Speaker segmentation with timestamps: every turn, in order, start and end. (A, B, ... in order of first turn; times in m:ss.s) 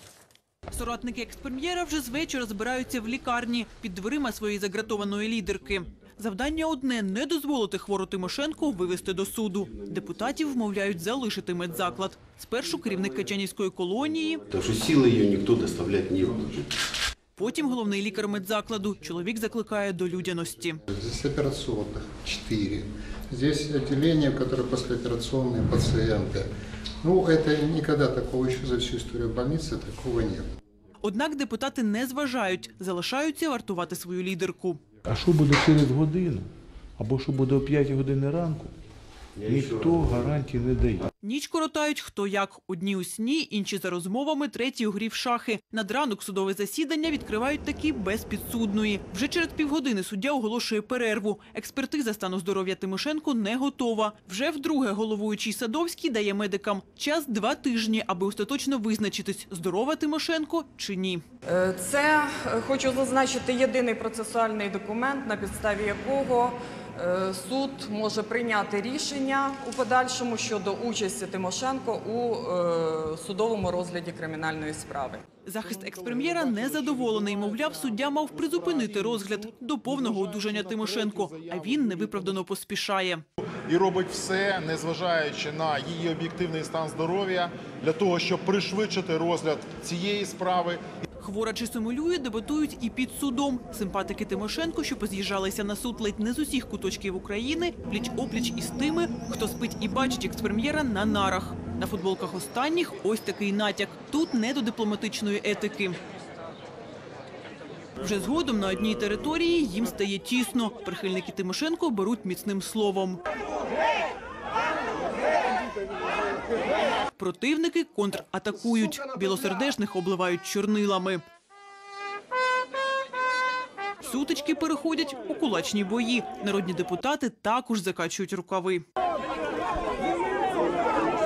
0:00.7-0:14.4 A
0:14.5-0:16.6 B
0:17.4-0:20.8 A
0:20.9-0:26.5 C
0:27.0-0:30.5 C
0:31.0-0:34.8 A
0:35.1-0:36.5 D
0:37.0-0:38.7 D
0:39.5-0:41.0 D
0:39.6-0:39.9 B
0:41.2-1:01.2 A
1:01.5-1:15.2 E
1:15.4-1:23.2 A
1:15.8-1:17.5 F
1:18.5-1:19.2 F
1:19.9-1:21.9 F
1:23.7-1:30.8 F
1:31.2-1:46.0 A
1:48.0-1:53.2 A
1:57.2-2:01.2 A
2:04.0-2:08.8 A